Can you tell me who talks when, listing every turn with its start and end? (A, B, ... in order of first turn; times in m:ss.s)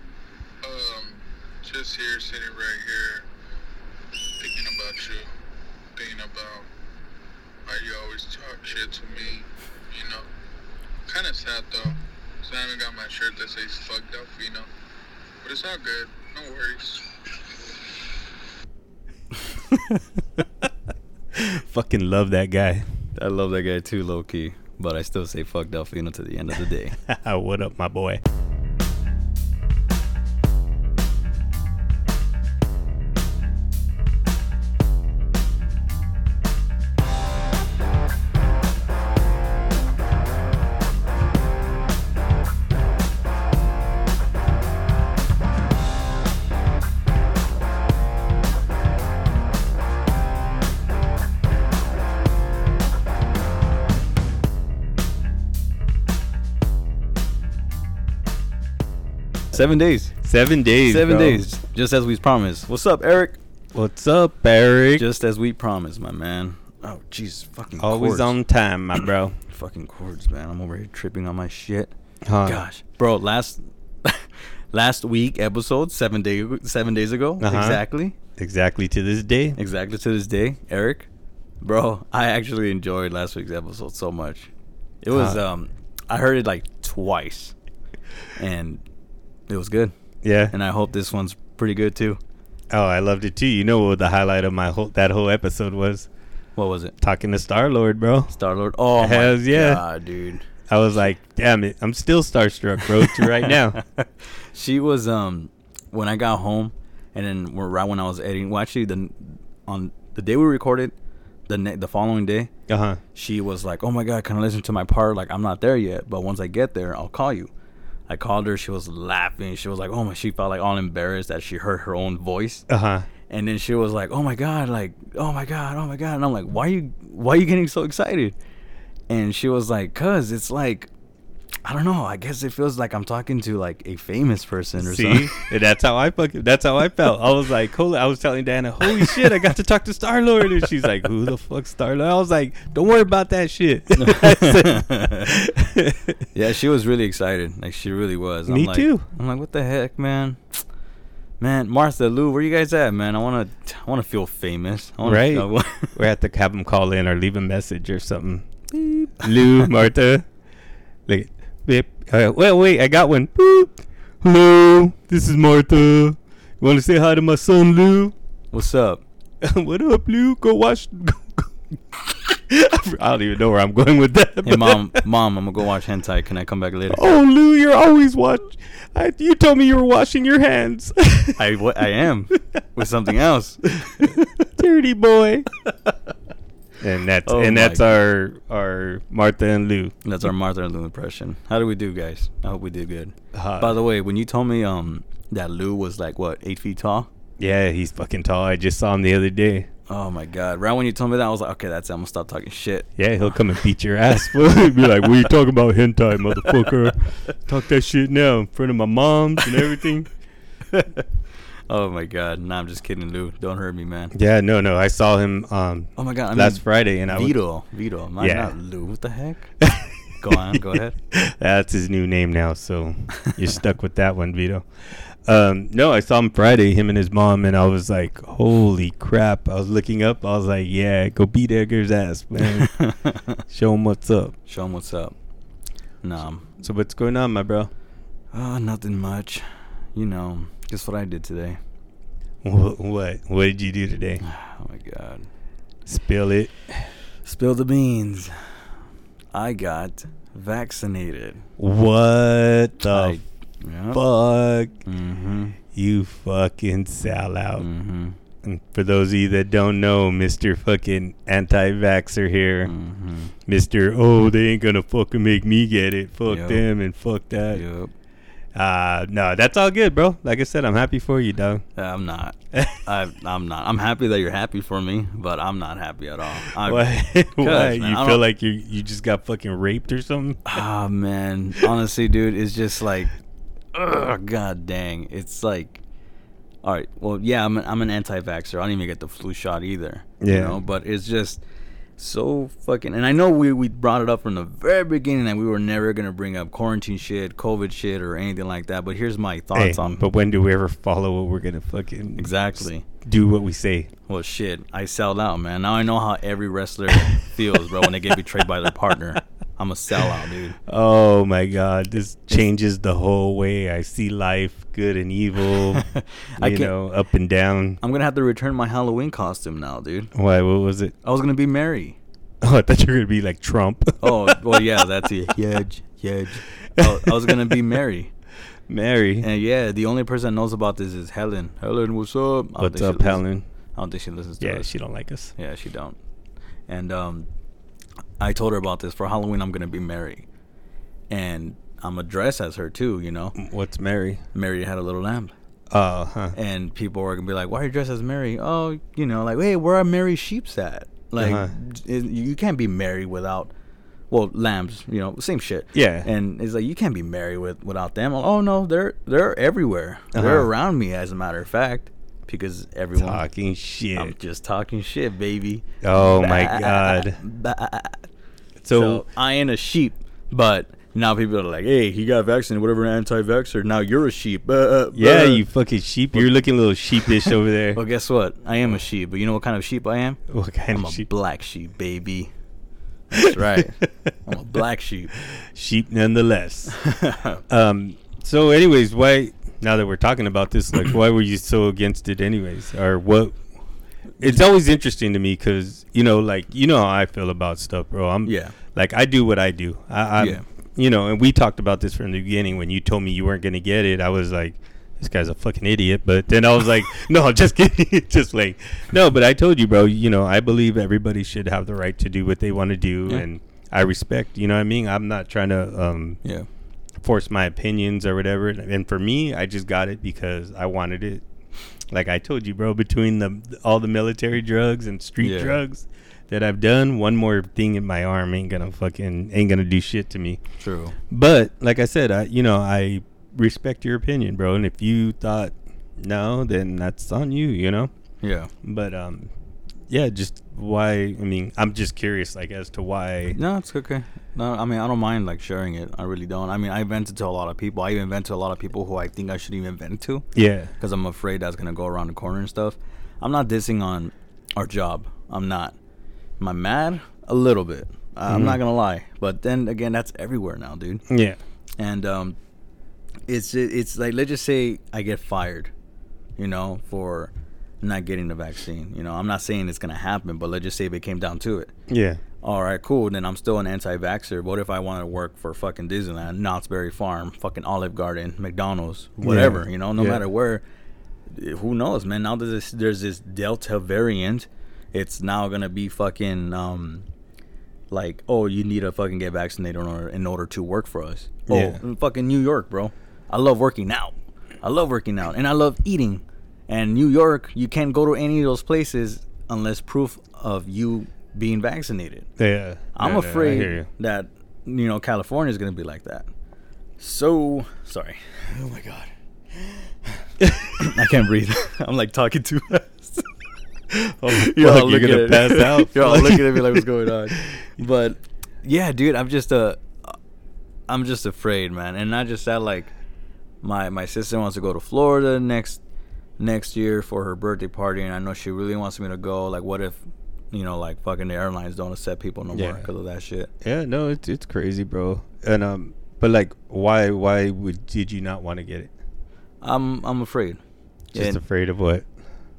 0:00.6-0:03.3 A
0:04.4-0:05.3 A
0:06.0-0:06.7 A
0:07.6-0:10.2 A
0:11.1-0:14.7 A
0:15.4-0:17.1 A
0:19.7-0:20.0 B
0:21.3-0:22.9 C
0:23.2-0:27.0 B
0:27.0-0:28.2 C
0:59.5-1:00.1 B
1:00.2-1:01.4 C
1:00.9-1:03.4 B
1:03.7-1:05.0 C
1:05.0-1:08.4 B
1:07.8-1:09.4 C
1:09.5-1:11.9 B
1:12.2-1:12.6 C
1:12.4-1:18.2 B
1:17.4-1:17.8 C
1:18.4-1:19.6 C
1:19.6-1:21.1 B
1:21.6-1:24.5 B
1:25.0-1:27.5 B
1:25.1-1:25.4 C
1:28.4-1:28.8 B
1:29.5-1:29.9 B
1:30.2-1:30.5 C
1:30.5-1:32.2 B
1:32.7-1:36.1 C
1:36.6-1:36.9 B
1:37.0-1:38.4 C
1:38.3-1:40.4 B
1:39.0-1:39.8 C
1:40.7-1:43.8 C
1:42.9-1:50.9 B
1:51.5-1:52.5 B
1:52.7-1:53.0 C
1:53.1-1:57.5 B
1:58.1-2:02.7 B
2:02.7-2:03.1 C
2:03.3-2:08.3 B
2:09.1-2:10.9 B
2:11.6-2:15.4 B
2:14.8-2:26.2 C
2:23.9-2:25.3 B
2:26.3-2:30.6 B
2:28.5-2:29.1 C
2:31.4-2:36.0 B
2:35.0-2:40.3 C
2:41.1-2:48.2 C
2:48.5-2:49.0 B
2:49.4-2:55.1 C
2:54.4-2:57.0 B
2:56.9-3:01.4 C
3:01.4-3:04.1 B
3:03.9-3:05.5 C
3:06.8-3:10.0 C
3:07.3-3:08.0 B
3:10.0-3:17.1 B
3:13.3-3:13.8 C
3:17.4-3:19.7 C
3:19.9-3:23.4 B
3:23.0-3:30.1 C
3:30.7-3:31.0 B
3:31.7-3:34.1 B
3:34.1-3:37.4 C
3:36.0-3:39.6 B
3:38.2-3:38.5 C
3:39.6-3:44.7 C
3:40.1-3:41.0 B
3:45.2-3:52.7 C
3:52.5-3:53.4 B
3:53.5-3:54.3 C
3:54.5-3:55.2 B
3:56.0-3:56.5 B
3:56.6-3:57.7 C
3:58.3-4:01.6 B
4:02.4-4:04.2 C
4:04.2-4:05.3 B
4:05.9-4:06.9 C
4:07.2-4:08.3 B
4:09.3-4:11.4 B
4:11.6-4:13.2 C
4:12.8-4:14.0 B
4:13.9-4:14.8 C
4:14.8-4:15.6 B
4:15.7-4:17.6 C
4:17.6-4:18.2 B
4:18.4-4:22.7 C
4:22.6-4:23.3 B
4:23.4-4:27.6 C
4:26.3-4:26.6 B
4:27.5-4:27.9 B
4:28.5-4:31.6 C
4:31.8-4:38.2 B
4:32.5-4:32.8 C
4:36.5-4:40.6 C
4:40.4-4:43.1 B
4:43.7-4:45.8 B
4:46.6-4:51.4 B
4:50.2-4:50.6 C
4:52.0-5:00.1 B
4:59.5-5:03.9 C
5:02.2-5:02.8 B
5:04.1-5:10.6 B
5:10.7-5:17.8 C
5:15.7-5:16.7 B
5:17.8-5:20.1 B
5:20.1-5:20.9 C
5:21.0-5:22.0 B
5:22.4-5:24.8 C
5:24.0-5:28.1 B
5:26.8-5:27.5 C
5:28.7-5:29.3 C
5:29.2-5:33.2 B
5:32.6-5:33.5 C
5:33.7-5:34.7 B
5:34.4-5:35.3 C
5:35.3-5:36.0 B
5:36.7-5:37.3 B
5:38.2-5:40.2 B
5:41.1-5:43.4 B
5:43.4-5:44.2 C
5:44.3-5:45.3 B
5:45.7-5:46.4 C
5:46.3-5:53.5 B
5:51.2-5:51.5 C
5:54.1-6:03.2 B
5:55.7-5:56.1 C
6:00.1-6:00.5 C
6:02.9-6:04.1 C
6:03.9-6:08.0 B
6:05.8-6:07.2 C
6:08.6-6:09.0 C
6:08.7-6:15.4 B
6:14.9-6:17.8 C
6:17.7-6:22.3 B
6:20.3-6:21.1 C
6:23.1-6:25.1 B
6:25.2-6:26.8 C
6:26.8-6:27.4 B
6:27.5-6:33.4 C
6:34.2-6:56.2 C
6:38.2-6:38.5 B
6:40.2-6:40.4 B
6:57.0-7:01.2 C
7:01.9-7:10.4 C
7:05.2-7:05.6 B
7:10.6-7:11.0 B
7:11.1-7:17.9 C
7:18.2-7:18.5 B
7:18.6-7:19.3 C
7:19.9-7:23.4 C
7:23.3-7:30.2 B
7:30.3-7:30.7 C
7:30.8-7:35.8 B
7:36.4-7:41.0 B
7:38.3-7:38.6 C
7:41.1-7:41.4 C
7:41.8-7:42.4 B
7:43.3-7:45.7 B
7:46.4-7:51.7 B
7:51.9-7:52.2 C
7:52.4-8:00.6 B
7:59.2-8:00.2 C
8:01.3-8:07.1 B
8:07.9-8:22.3 B
8:11.5-8:11.8 C
8:22.4-8:23.9 C
8:22.9-8:26.3 B
8:27.0-8:33.3 B
8:30.4-8:30.8 C
8:33.9-8:37.6 C
8:34.2-8:40.2 B
8:40.9-8:42.9 B
8:43.6-8:45.8 B
8:46.4-8:50.0 B
8:50.5-8:53.5 B
8:52.5-8:52.8 C
8:53.6-8:58.9 C
8:59.6-9:00.6 B
9:01.1-9:01.4 B
9:01.1-9:02.1 C